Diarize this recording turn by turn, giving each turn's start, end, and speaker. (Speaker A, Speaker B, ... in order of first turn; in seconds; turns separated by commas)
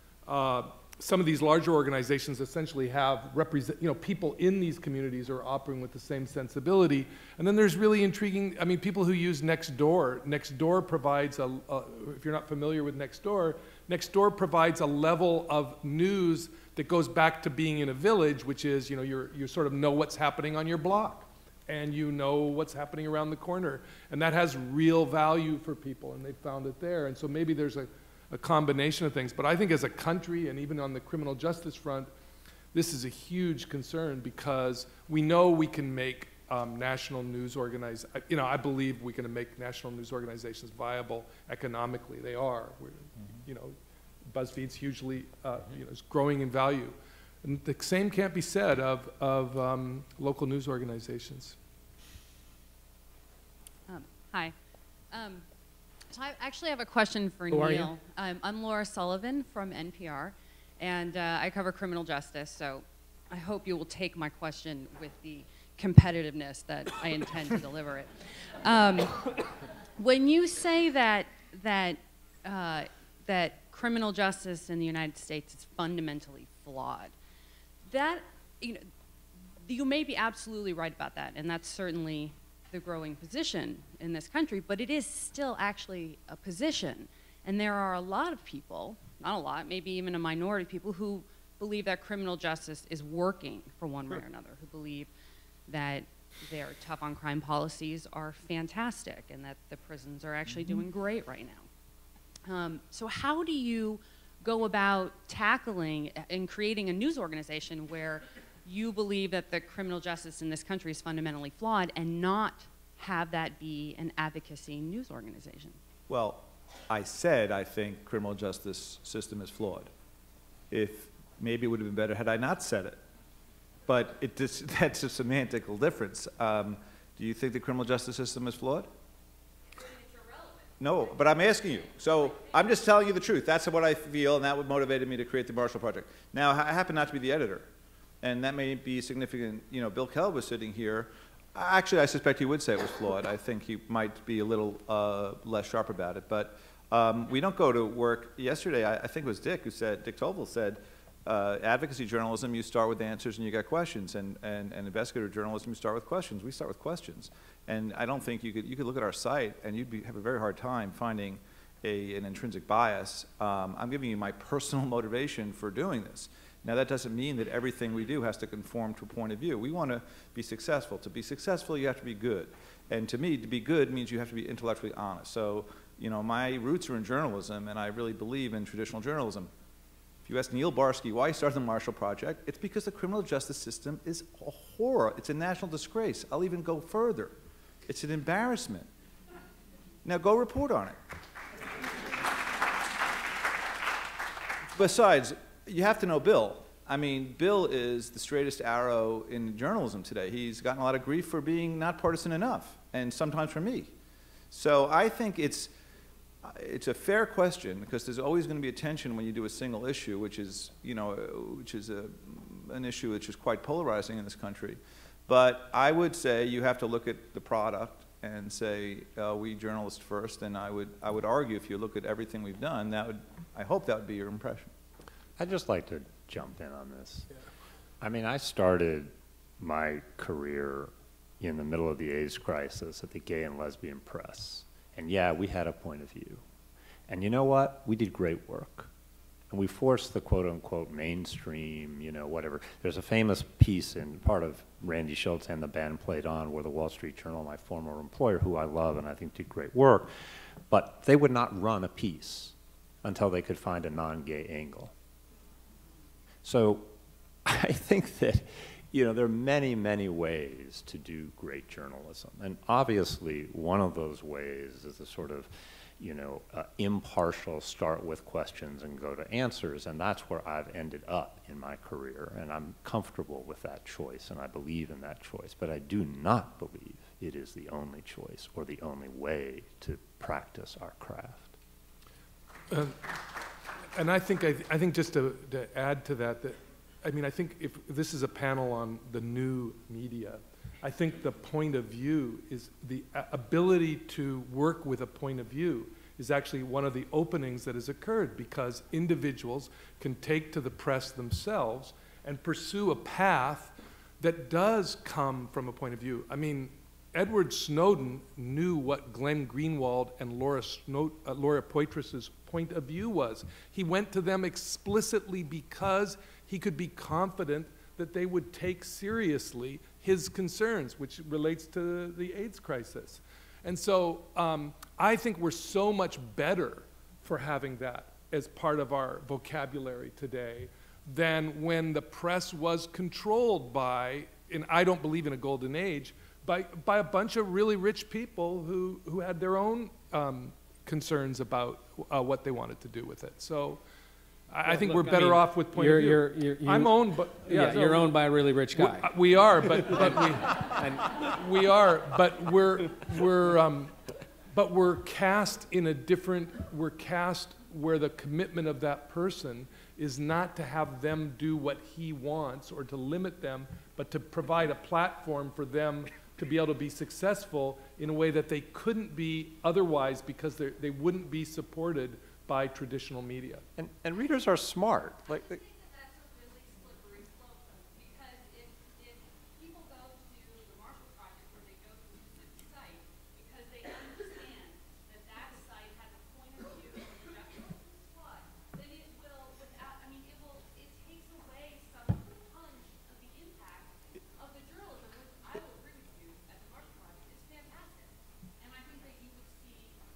Speaker A: 0.2-32.1, Speaker A: 32.7-43.8, Speaker A: 44.3-51.6, Speaker B: 53.9-54.5, Speaker B: 55.1-55.4, Speaker B: 56.1-68.1, Speaker C: 57.5-57.9, Speaker B: 68.6-69.3, Speaker B: 70.0-77.1, Speaker B: 77.9-78.9, Speaker B: 79.6-95.1, Speaker B: 95.7-101.7, Speaker B: 102.5-115.8, Speaker D: 116.1-119.9, Speaker D: 120.7-123.0, Speaker D: 123.9-128.9, Speaker E: 129.8-132.8, Speaker D: 130.8-137.7, Speaker D: 138.2-179.5, Speaker D: 180.2-188.9, Speaker D: 190.1-191.0, Speaker D: 194.7-203.9, Speaker D: 204.5-205.7, Speaker D: 206.4-224.7, Speaker F: 225.4-227.3, Speaker F: 228.0-236.4, Speaker F: 237.1-238.9, Speaker F: 239.5-250.1, Speaker F: 250.7-254.9, Speaker F: 256.4-256.9, Speaker F: 257.4-281.5, Speaker A: 282.7-283.1, Speaker A: 283.9-343.8, Speaker A: 344.5-348.1, Speaker C: 344.6-349.1, Speaker A: 348.8-353.9, Speaker C: 349.6-351.2, Speaker A: 354.5-373.6, Speaker F: 373.8-375.6, Speaker E: 375.4-400.0